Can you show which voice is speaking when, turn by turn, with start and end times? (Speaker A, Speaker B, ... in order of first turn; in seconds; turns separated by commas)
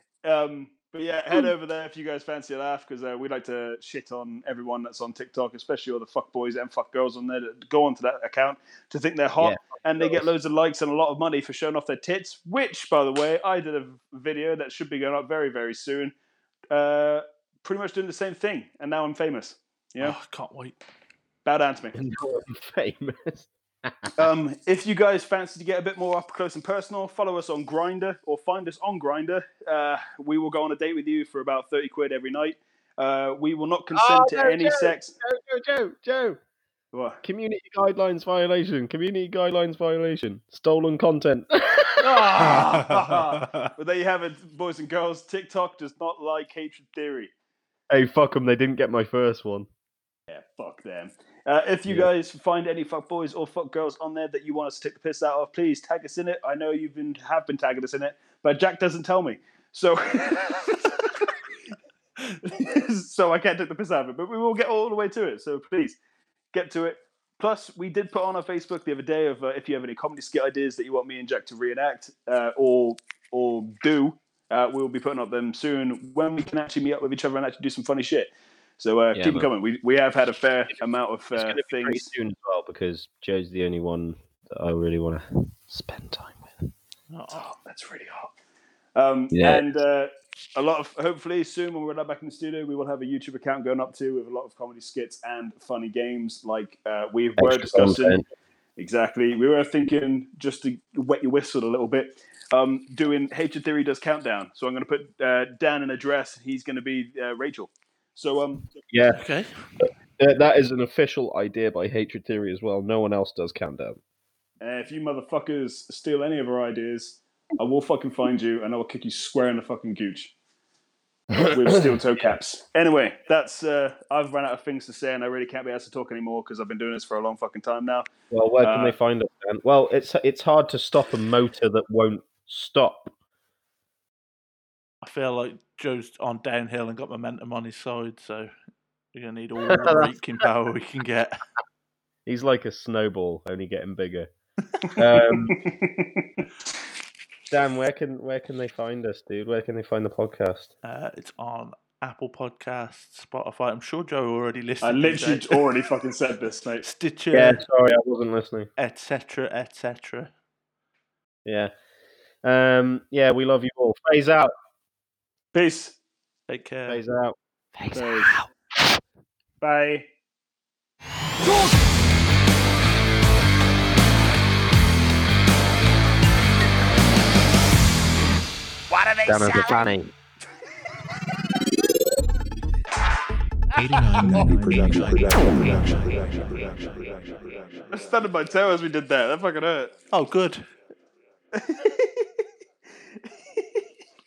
Speaker A: 0.2-16.1, Speaker B: 9.4-10.3, Speaker A: 16.7-20.2, Speaker C: 20.0-20.8, Speaker A: 21.4-22.0, Speaker B: 21.9-24.1, Speaker A: 24.2-35.1, Speaker B: 33.9-36.4, Speaker A: 36.9-37.2, Speaker B: 37.2-42.6, Speaker A: 42.0-47.3, Speaker C: 42.7-43.7, Speaker B: 47.9-49.7, Speaker A: 50.3-61.4, Speaker A: 62.2-66.0, Speaker A: 66.5-82.1, Speaker B: 79.1-79.5, Speaker B: 81.3-86.7, Speaker C: 87.1-87.5, Speaker A: 87.3-88.3, Speaker A: 89.0-98.2, Speaker B: 89.3-89.6, Speaker B: 97.4-98.2, Speaker A: 98.8-108.7, Speaker B: 108.9-109.2, Speaker C: 109.2-109.5, Speaker B: 109.8-114.0, Speaker A: 114.6-120.3, Speaker B: 121.3-122.4, Speaker A: 121.5-128.1, Speaker B: 128.3-133.1, Speaker A: 128.6-129.0, Speaker C: 135.0-138.5, Speaker C: 139.1-141.4, Speaker B: 139.7-140.1, Speaker B: 142.3-144.3, Speaker B: 145.0-145.6, Speaker A: 145.2-146.4, Speaker B: 147.5-150.7, Speaker C: 150.8-155.6, Speaker A: 154.8-156.8, Speaker C: 156.8-157.6, Speaker B: 157.3-158.7, Speaker C: 158.8-160.3, Speaker B: 161.4-161.7, Speaker B: 162.4-164.5, Speaker A: 165.5-166.0, Speaker C: 166.5-167.0, Speaker B: 166.9-168.5, Speaker A: 167.9-168.4, Speaker A: 169.6-170.1, Speaker A: 178.9-179.9, Speaker B: 179.2-180.1, Speaker A: 184.2-184.7, Speaker A: 187.9-189.9, Speaker C: 190.1-190.7, Speaker A: 191.5-192.4, Speaker A: 193.2-193.8